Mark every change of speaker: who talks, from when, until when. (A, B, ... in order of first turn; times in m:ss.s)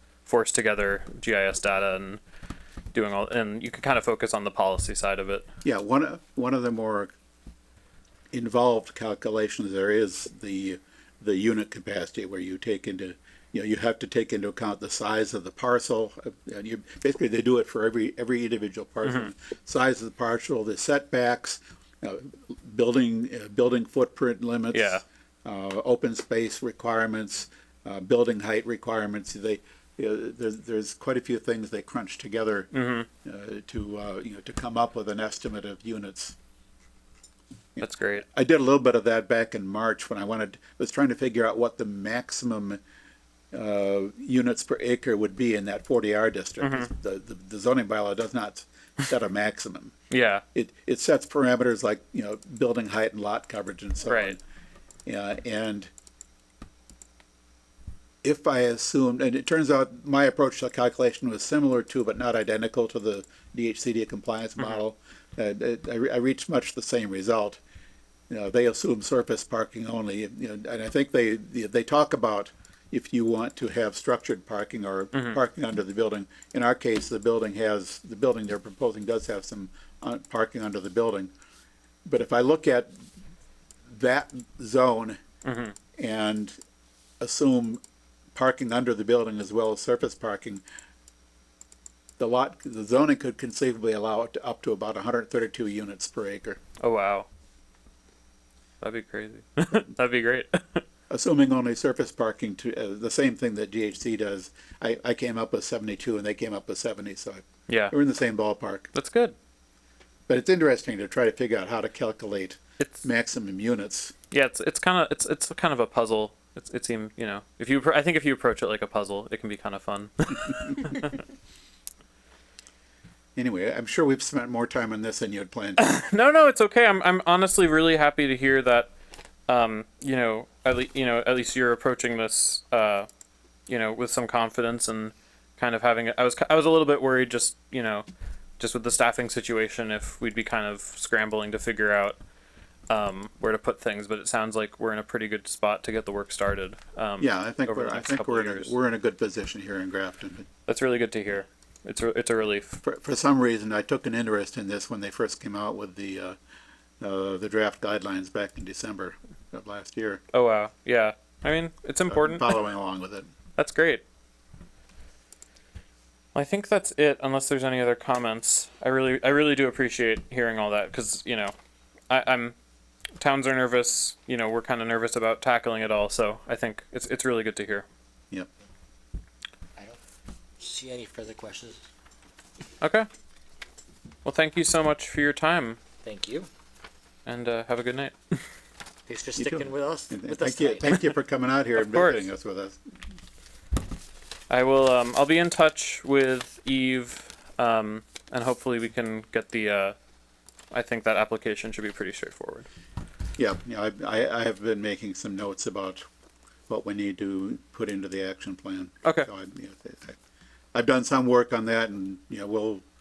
0:00.3-0:02.2 A
0:02.9-0:05.5 A
0:05.6-0:07.1 B
0:08.3-0:32.7 B
0:24.7-0:25.0 A
0:32.7-0:33.1 A
0:33.2-0:36.4 B
0:37.8-0:42.8 B
0:37.8-0:38.2 A
0:43.5-0:50.0 B
0:46.6-0:46.9 A
0:50.1-0:50.4 A
0:50.5-0:54.4 B
0:54.0-0:54.4 A
0:55.0-0:55.9 B
0:58.2-1:07.6 B
1:08.3-1:21.3 B
1:15.1-1:15.4 A
1:22.0-1:22.9 B
1:23.9-1:25.2 B
1:25.4-1:25.8 A
1:26.0-1:26.6 B
1:27.2-1:27.8 B
1:28.3-1:30.6 B
1:32.2-1:36.6 B
1:36.8-1:37.3 A
1:38.8-1:40.8 A
1:41.1-1:48.9 B
1:47.7-1:47.9 A
1:48.9-1:49.3 A
1:50.3-1:54.1 B
1:54.3-2:01.2 A
2:03.4-2:05.8 B
2:05.8-2:08.9 A
2:09.5-2:13.1 A
2:13.7-2:18.1 A
2:18.6-2:22.2 A
2:22.9-2:28.7 A
2:27.2-2:30.5 B
2:30.7-2:32.8 A
2:32.8-2:36.4 B
2:37.0-2:40.2 B
2:40.3-2:42.6 A
2:42.1-2:43.3 B
2:43.6-2:44.0 A
2:46.3-2:51.5 A
2:52.1-2:52.6 A
2:53.2-2:57.9 A
3:00.6-3:01.8 C
3:02.8-3:03.1 A
3:04.2-3:05.8 A
3:06.0-3:06.5 C
3:07.3-3:08.4 A
3:09.1-3:11.0 C
3:09.4-3:12.8 B
3:11.8-3:12.3 A
3:14.5-3:20.0 A
3:20.7-3:22.7 A
3:23.4-3:26.0 B
3:26.7-3:30.2 B
3:30.7-3:32.8 B